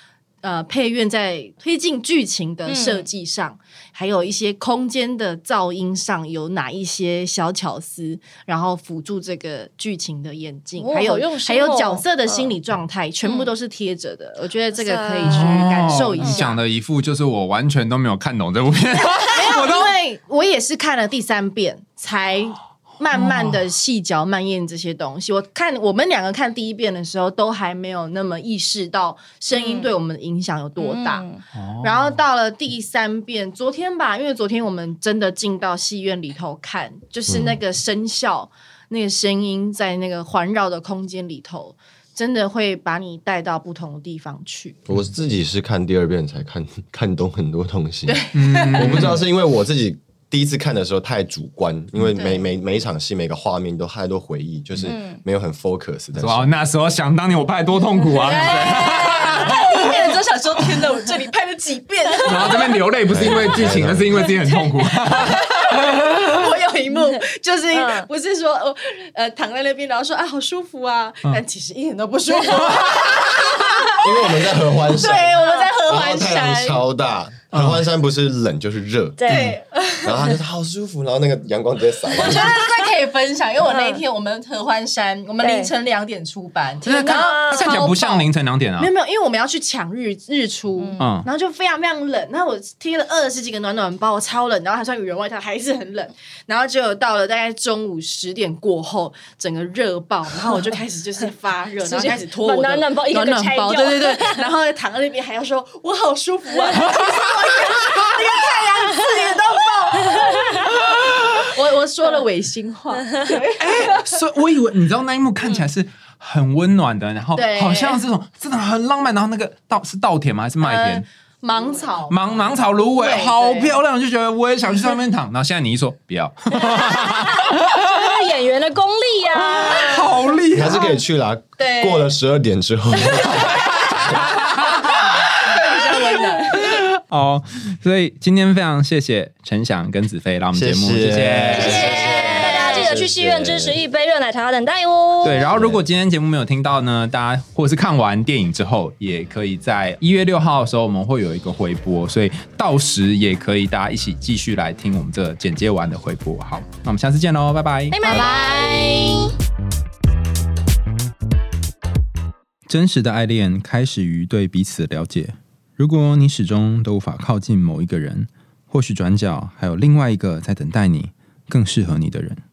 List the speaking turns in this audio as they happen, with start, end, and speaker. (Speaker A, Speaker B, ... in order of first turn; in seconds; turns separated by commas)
Speaker A: 0.4-16.6, Speaker B: 2.7-3.0, Speaker B: 10.8-12.5, Speaker B: 13.2-13.5, Speaker B: 14.8-15.6, Speaker C: 15.2-19.9, Speaker A: 19.3-31.2, Speaker C: 23.1-23.6, Speaker B: 29.5-29.9, Speaker B: 30.8-31.4, Speaker C: 31.5-32.2, Speaker A: 31.8-44.8, Speaker D: 37.3-37.5, Speaker D: 44.9-56.5, Speaker A: 48.1-49.2, Speaker C: 48.3-49.2, Speaker B: 54.9-55.2, Speaker C: 56.2-60.2, Speaker A: 58.1-62.8, Speaker C: 62.2-66.3, Speaker D: 63.1-64.3, Speaker A: 64.8-76.8, Speaker B: 67.7-68.1, Speaker C: 72.7-73.3, Speaker D: 73.9-79.4, Speaker B: 75.4-75.7, Speaker C: 77.5-77.8, Speaker B: 79.2-79.5, Speaker C: 79.3-79.6, Speaker A: 79.3-80.3, Speaker D: 80.0-82.6, Speaker A: 82.1-88.3, Speaker B: 82.2-82.6, Speaker B: 83.7-84.0, Speaker B: 85.4-85.7, Speaker C: 86.8-88.9, Speaker B: 87.0-88.0, Speaker A: 88.8-114.0, Speaker B: 90.8-91.1, Speaker C: 91.0-91.3, Speaker B: 101.8-104.5, Speaker B: 110.1-110.7, Speaker C: 113.4-121.0, Speaker A: 117.3-118.0, Speaker A: 120.6-123.7, Speaker C: 122.1-128.0, Speaker B: 127.0-130.1, Speaker C: 129.5-130.9, Speaker D: 130.5-134.2, Speaker A: 131.6-132.1, Speaker A: 133.0-133.4, Speaker C: 133.6-134.9, Speaker A: 134.4-136.8, Speaker C: 136.5-142.1, Speaker D: 140.5-143.8, Speaker A: 141.5-143.0, Speaker B: 141.6-145.4, Speaker C: 145.2-158.0, Speaker D: 145.5-145.8, Speaker B: 157.9-159.3, Speaker A: 158.1-159.3, Speaker C: 162.7-172.4